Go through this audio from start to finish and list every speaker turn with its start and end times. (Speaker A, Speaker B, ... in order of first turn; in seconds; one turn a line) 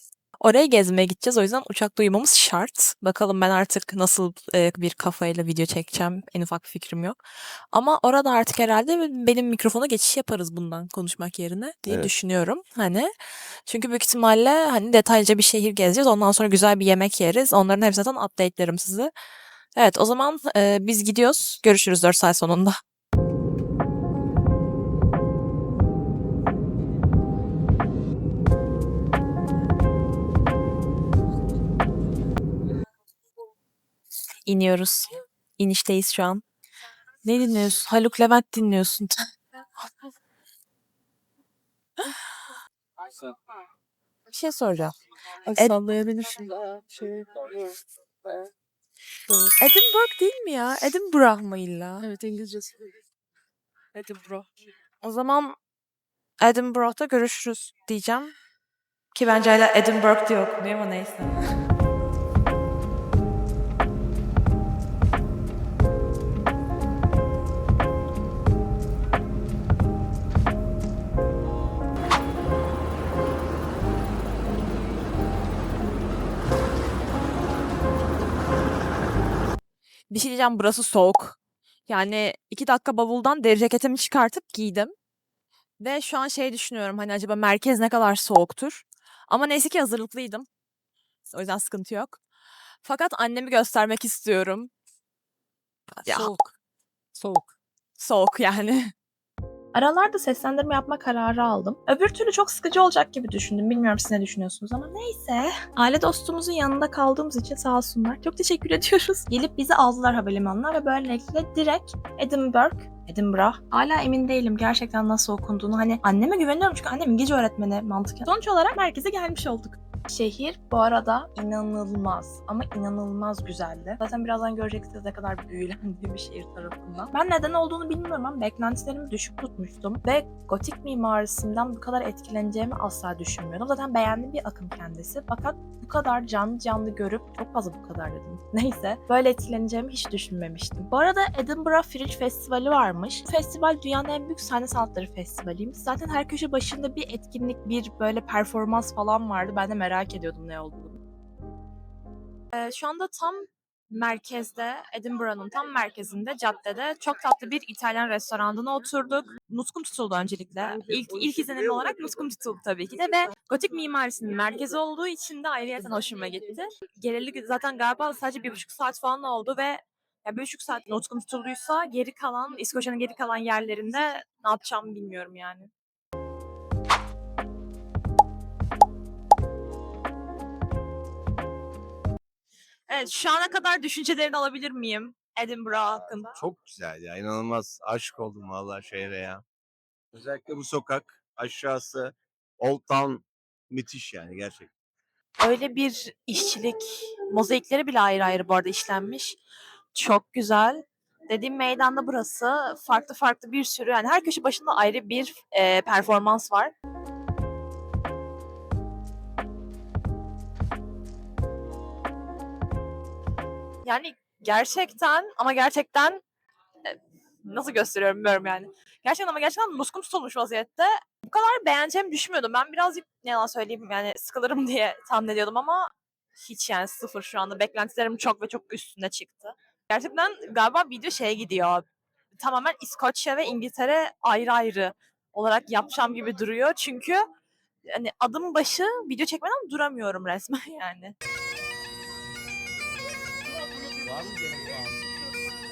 Speaker A: 0.4-7.2
Speaker A: 7.7-13.1
Speaker A: 13.7-19.1
Speaker A: 19.8-22.8
Speaker A: 34.5-36.4
Speaker A: 37.2-39.1
Speaker A: 44.3-44.9
Speaker B: 45.5-47.6
Speaker A: 45.5-46.4
Speaker A: 49.6-52.4
Speaker B: 52.1-52.8
Speaker A: 54.0-54.4
Speaker A: 55.0-55.6
Speaker A: 56.4-58.3
Speaker A: 59.1-61.4
Speaker A: 80.1-84.9
Speaker A: 85.8-90.5
Speaker A: 91.2-92.2
Speaker A: 92.8-94.7
Speaker A: 96.0-96.3
Speaker B: 96.1-96.5
Speaker B: 97.2-97.5
Speaker A: 98.0-98.9
Speaker A: 99.7-151.0
Speaker A: 152.5-175.7
Speaker A: 182.9-186.3
Speaker C: 186.3-189.4
Speaker C: 190.1-194.7
Speaker A: 195.4-199.4
Speaker A: 199.9-206.7
Speaker A: 213.8-216.2
Speaker A: 216.8-231.8
Speaker A: 232.4-237.2
Speaker A: 237.9-241.1
Speaker C: 244.1-244.8